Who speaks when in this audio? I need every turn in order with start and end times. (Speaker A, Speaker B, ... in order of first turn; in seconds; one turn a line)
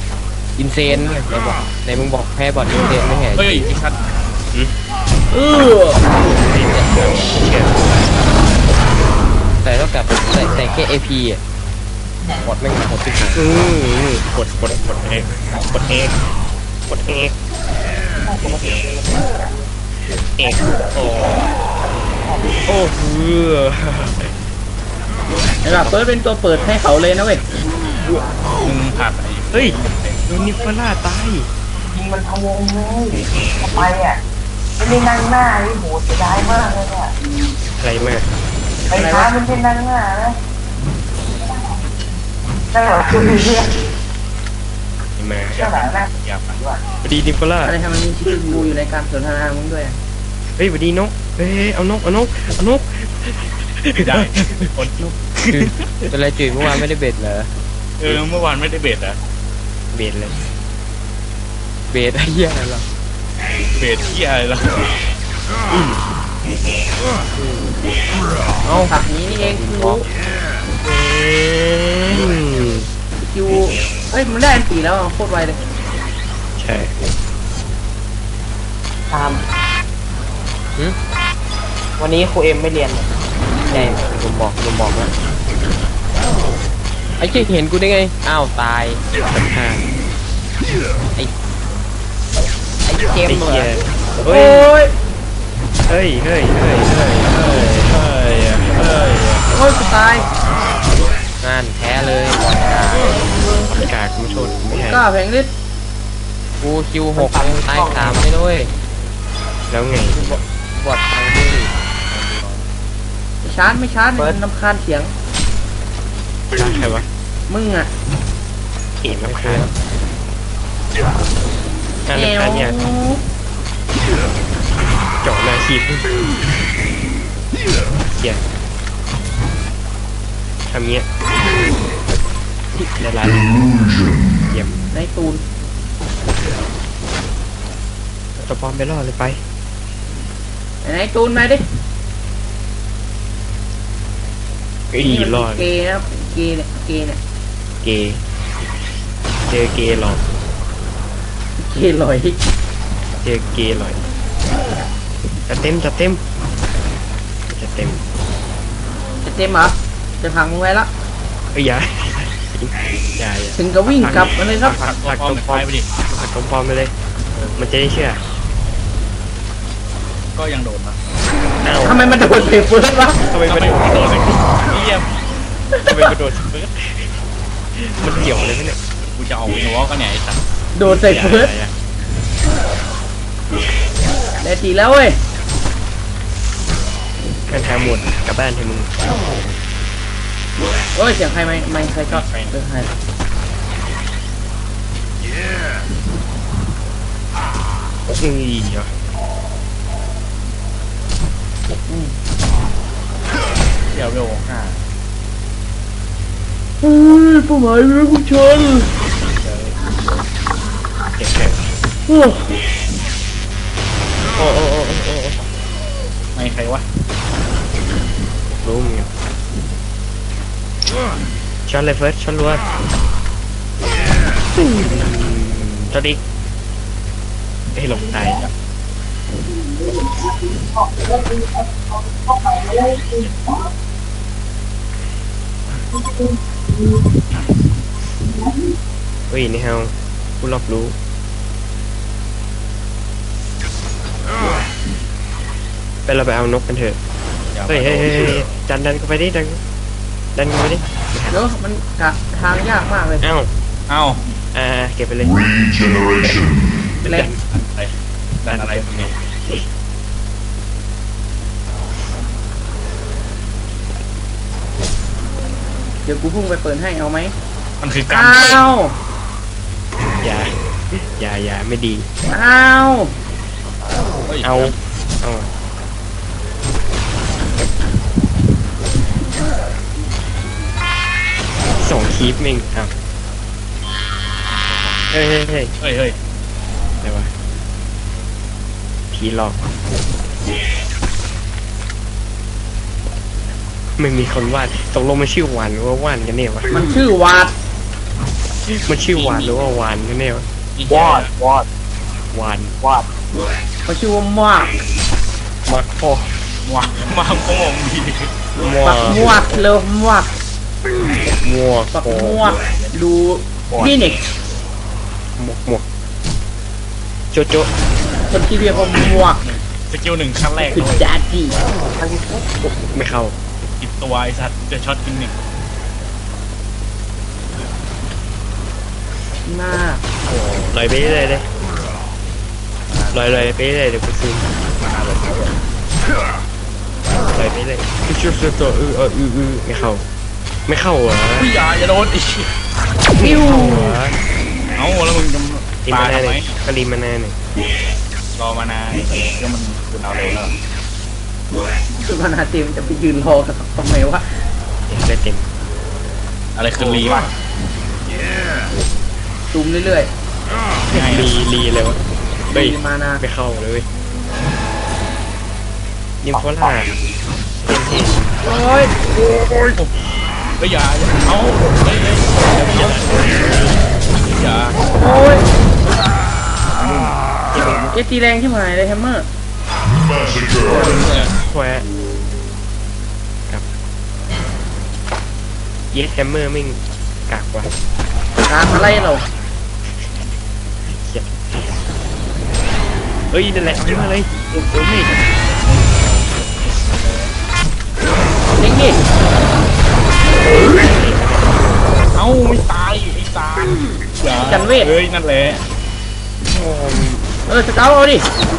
Speaker A: 0.6-3.7
Speaker B: 3.4-4.0
Speaker C: 5.3-6.0
Speaker D: 6.2-7.9
Speaker A: 9.6-11.4
Speaker A: 12.6-13.4
Speaker D: 13.3-16.3
Speaker D: 16.9-17.3
Speaker E: 18.2-19.7
Speaker D: 20.4-21.4
Speaker E: 22.2-22.6
Speaker D: 22.7-24.4
Speaker C: 25.6-27.4
Speaker D: 25.7-26.0
Speaker E: 28.0-28.4
Speaker B: 28.6-30.5
Speaker D: 29.5-31.5
Speaker E: 31.8-34.2
Speaker E: 34.8-37.1
Speaker D: 37.8-38.3
Speaker E: 38.9-40.4
Speaker C: 38.9-39.4
Speaker E: 41.3-41.8
Speaker E: 42.7-43.9
Speaker D: 45.2-45.6
Speaker B: 45.5-46.6
Speaker E: 45.5-46.8
Speaker D: 47.0-47.8
Speaker C: 47.6-50.0
Speaker D: 50.6-54.7
Speaker B: 54.0-55.0
Speaker D: 55.4-56.6
Speaker A: 55.5-57.5
Speaker B: 58.0-59.2
Speaker D: 59.9-60.4
Speaker A: 61.9-62.9
Speaker B: 63.8-64.9
Speaker D: 65.7-66.0
Speaker A: 68.6-70.1
Speaker C: 68.9-70.1
Speaker D: 70.8-72.9
Speaker C: 73.2-75.6
Speaker D: 76.6-76.9
Speaker E: 79.1-79.4
Speaker E: 82.0-83.1
Speaker A: 83.7-85.1
Speaker A: 87.2-89.0
Speaker D: 89.3-89.9
Speaker E: 92.9-93.7
Speaker D: 93.2-94.7
Speaker C: 94.3-94.9
Speaker D: 95.9-99.5
Speaker C: 99.5-100.3
Speaker A: 101.4-103.3
Speaker D: 103.7-105.0
Speaker C: 104.7-105.5
Speaker A: 106.6-108.7
Speaker E: 107.2-108.3
Speaker D: 109.7-110.4
Speaker A: 110.1-111.7
Speaker B: 112.1-112.6
Speaker C: 113.4-115.1
Speaker D: 116.5-117.1
Speaker C: 117.5-117.9
Speaker D: 119.0-119.7
Speaker A: 119.2-119.7
Speaker D: 122.1-122.8
Speaker C: 122.1-123.2
Speaker D: 125.2-126.4
Speaker D: 128.1-128.4
Speaker D: 130.7-131.1
Speaker D: 132.7-133.6
Speaker F: 133.2-134.6
Speaker D: 134.5-134.8
Speaker C: 134.9-135.4
Speaker D: 138.4-139.4
Speaker C: 140.8-141.6
Speaker D: 144.9-145.7
Speaker C: 145.0-147.2
Speaker D: 147.8-148.2
Speaker D: 149.5-150.2
Speaker C: 151.6-152.4
Speaker D: 153.2-154.0
Speaker D: 155.5-156.2
Speaker D: 157.5-158.0
Speaker C: 159.2-160.9
Speaker D: 161.5-166.9
Speaker C: 163.6-164.8
Speaker B: 164.4-165.9
Speaker B: 167.3-167.7
Speaker D: 167.6-168.2
Speaker B: 170.3-171.0
Speaker D: 171.6-172.1
Speaker C: 171.8-173.3
Speaker D: 173.3-174.4
Speaker B: 173.4-175.1
Speaker C: 175.8-176.1
Speaker D: 175.8-177.1
Speaker D: 177.7-178.8
Speaker B: 179.0-180.4
Speaker C: 180.8-181.5
Speaker D: 180.9-181.7
Speaker C: 184.4-185.2
Speaker D: 187.5-189.0
Speaker C: 190.9-192.9
Speaker B: 192.1-192.6
Speaker D: 198.2-198.9
Speaker C: 201.9-202.1
Speaker B: 203.9-204.8
Speaker C: 206.8-208.9
Speaker B: 209.3-209.8
Speaker D: 211.2-211.7
Speaker C: 212.1-212.5
Speaker D: 214.4-215.4
Speaker B: 216.3-216.8
Speaker D: 218.6-219.1
Speaker D: 221.7-222.6
Speaker D: 224.6-226.2
Speaker D: 227.8-228.5
Speaker B: 228.1-228.5
Speaker E: 229.6-233.7
Speaker E: 235.9-237.1
Speaker D: 239.3-240.9
Speaker D: 246.1-247.0
Speaker B: 247.5-248.5
Speaker D: 247.7-249.6
Speaker D: 250.3-251.4
Speaker C: 251.3-253.3
Speaker D: 253.2-253.5
Speaker B: 253.9-254.2
Speaker D: 254.5-255.4
Speaker F: 255.2-257.0
Speaker C: 257.1-257.3
Speaker D: 257.1-257.4
Speaker B: 257.5-259.1
Speaker D: 258.5-259.7
Speaker C: 266.1-267.3
Speaker B: 267.8-268.7
Speaker C: 268.1-268.9
Speaker D: 270.2-272.1
Speaker C: 272.3-273.1
Speaker B: 274.3-274.7
Speaker D: 274.4-275.5
Speaker D: 281.8-282.9
Speaker B: 284.6-285.1
Speaker D: 285.1-285.7
Speaker B: 285.8-286.2
Speaker D: 287.0-287.3
Speaker D: 289.1-289.6
Speaker D: 294.0-296.9
Speaker C: 296.7-297.5
Speaker D: 298.7-300.5
Speaker B: 299.1-299.6
Speaker B: 300.8-301.3
Speaker E: 300.9-301.7
Speaker D: 302.3-302.8
Speaker E: 302.8-303.1
Speaker C: 303.9-304.8
Speaker D: 305.7-306.5
Speaker B: 306.6-308.3
Speaker D: 308.6-309.6
Speaker C: 308.8-310.3
Speaker D: 311.4-312.5
Speaker C: 311.9-314.2
Speaker B: 312.6-312.9
Speaker D: 315.4-315.9
Speaker D: 317.3-317.7
Speaker C: 318.3-319.4
Speaker B: 318.6-321.1
Speaker C: 320.6-321.6
Speaker E: 322.0-322.7
Speaker D: 322.9-323.4
Speaker B: 323.8-325.3
Speaker C: 329.5-330.0
Speaker B: 330.2-330.8
Speaker D: 330.7-331.5
Speaker B: 332.9-333.5
Speaker D: 333.1-334.5
Speaker B: 334.8-335.6
Speaker D: 337.3-340.1
Speaker D: 340.7-341.5
Speaker B: 341.4-342.5
Speaker D: 343.2-344.2
Speaker C: 343.2-344.0
Speaker B: 344.8-346.6
Speaker D: 345.9-347.4
Speaker B: 348.4-350.5
Speaker C: 352.0-354.3
Speaker D: 354.9-355.5
Speaker B: 356.6-357.3
Speaker D: 356.8-357.3
Speaker C: 359.5-360.1
Speaker B: 360.9-361.3
Speaker D: 360.9-362.0
Speaker C: 362.5-363.2
Speaker D: 362.5-363.9
Speaker D: 366.2-366.9
Speaker D: 367.6-368.4
Speaker C: 368.4-368.9
Speaker B: 370.6-374.8
Speaker D: 372.3-373.8
Speaker C: 374.9-375.5
Speaker B: 376.7-377.1
Speaker D: 377.5-378.0
Speaker C: 377.9-379.3
Speaker F: 379.8-381.1
Speaker C: 380.7-381.1
Speaker D: 380.8-381.9
Speaker B: 380.8-381.3
Speaker D: 385.9-387.7
Speaker C: 388.5-389.2
Speaker D: 390.9-391.4
Speaker D: 393.3-395.2
Speaker B: 394.6-395.3
Speaker B: 396.8-397.3
Speaker C: 398.6-399.0
Speaker D: 400.6-401.8
Speaker B: 402.1-405.6
Speaker C: 404.4-404.9
Speaker D: 406.5-407.3
Speaker C: 407.5-408.3